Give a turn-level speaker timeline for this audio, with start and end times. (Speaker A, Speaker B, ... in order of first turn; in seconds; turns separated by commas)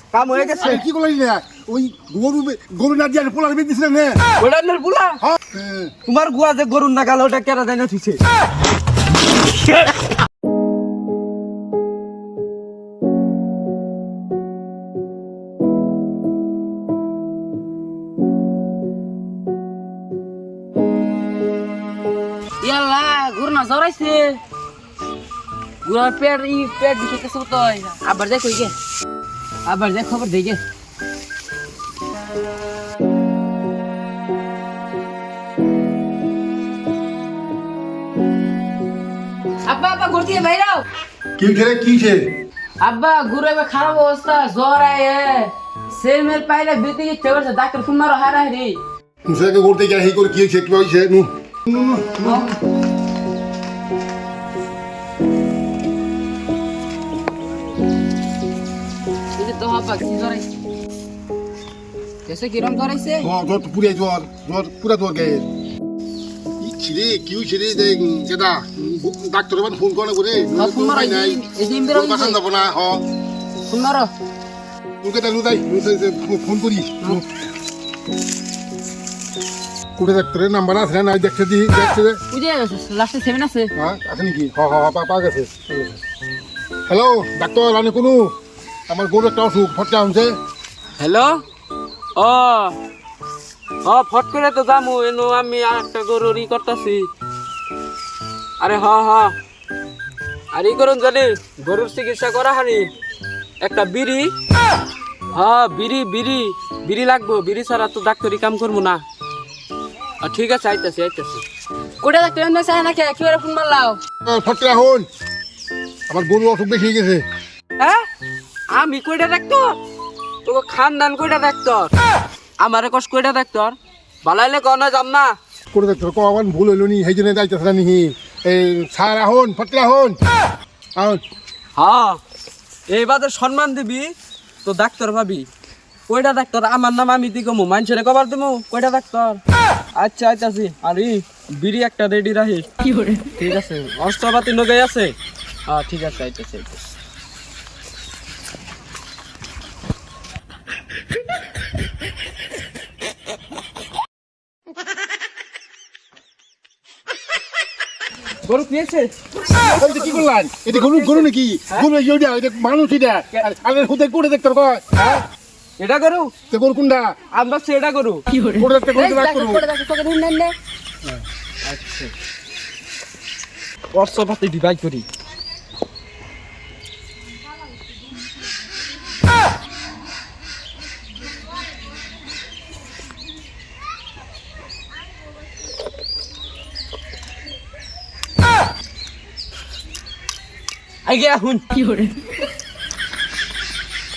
Speaker A: 0.1-0.8, Speaker B: 0.4-4.2, Speaker A: 4.4-5.2, Speaker B: 5.2-5.9, Speaker A: 6.0-8.2, Speaker C: 22.6-24.4, Speaker C: 25.8-28.7, Speaker C: 29.6-30.6, Speaker C: 39.6-40.8, Speaker B: 41.4-42.3, Speaker C: 42.8-48.8, Speaker B: 49.2-52.5, Speaker C: 52.2-52.5, Speaker C: 59.4-60.5, Speaker C: 62.2-63.3, Speaker B: 63.2-65.5, Speaker B: 66.6-73.0, Speaker C: 70.5-72.4, Speaker C: 73.7-74.1, Speaker B: 75.0-77.2, Speaker B: 80.0-82.2, Speaker C: 82.3-83.7, Speaker B: 83.8-86.0, Speaker B: 86.9-88.3, Speaker B: 88.9-90.3, Speaker A: 91.0-91.4, Speaker A: 92.2-92.7, Speaker A: 93.8-97.1, Speaker A: 98.6-99.3, Speaker A: 100.5-102.9, Speaker A: 103.6-104.3, Speaker A: 105.3-109.0, Speaker A: 110.2-111.4, Speaker C: 112.0-114.0, Speaker B: 114.2-115.1, Speaker B: 116.1-117.2, Speaker A: 117.8-118.0, Speaker A: 118.7-119.8, Speaker A: 120.4-121.9, Speaker A: 122.6-125.3, Speaker B: 125.7-130.2, Speaker B: 131.0-131.2, Speaker A: 131.8-132.2, Speaker A: 132.9-134.1, Speaker A: 134.6-135.5, Speaker A: 136.1-139.4, Speaker A: 140.0-142.7, Speaker C: 142.9-143.2, Speaker A: 143.3-145.1, Speaker A: 145.7-146.8, Speaker A: 158.4-161.9, Speaker B: 159.8-165.2, Speaker A: 165.8-166.3, Speaker B: 166.5-167.2, Speaker A: 167.3-168.2, Speaker C: 168.3-170.5, Speaker B: 168.5-169.6, Speaker A: 171.6-172.1, Speaker A: 173.9-175.0, Speaker A: 191.0-192.1